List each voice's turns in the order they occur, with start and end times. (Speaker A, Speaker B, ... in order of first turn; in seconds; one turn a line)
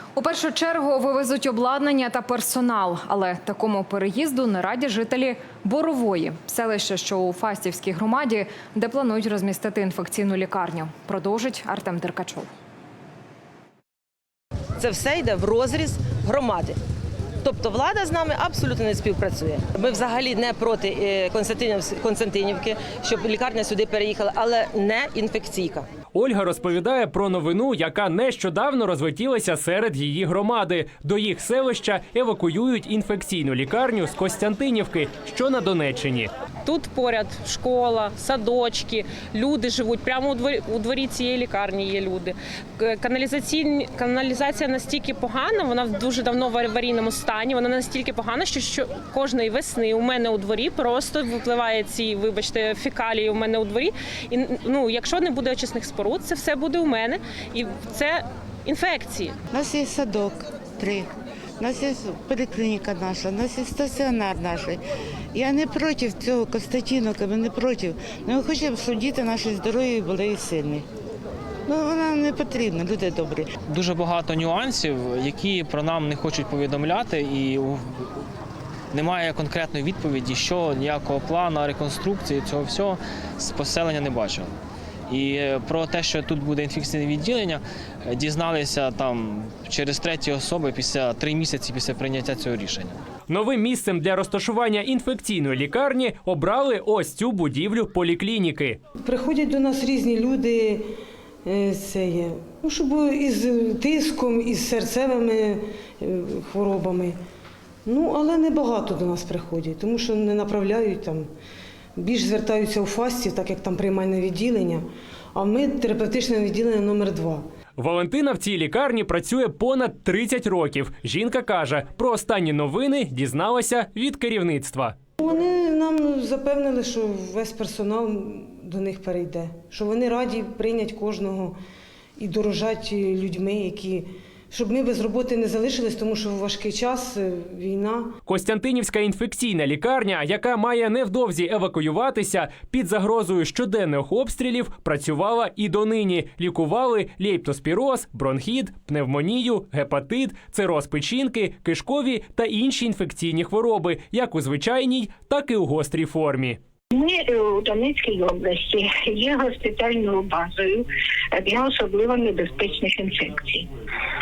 Speaker A: 0.1-12.5
Speaker B: 14.8-16.8
Speaker B: 17.4-25.9
Speaker C: 26.1-36.3
Speaker D: 36.6-59.3
Speaker E: 59.5-70.9
Speaker E: 71.7-73.5
Speaker F: 73.7-78.1
Speaker F: 78.9-84.5
Speaker F: 85.1-93.0
Speaker C: 93.3-98.8
Speaker G: 99.0-100.8
Speaker G: 101.4-107.2
Speaker G: 107.8-111.3
Speaker G: 112.0-117.4
Speaker C: 117.8-124.9
Speaker G: 125.2-131.6
Speaker G: 132.2-138.1
Speaker C: 138.2-156.6
Speaker H: 156.9-163.7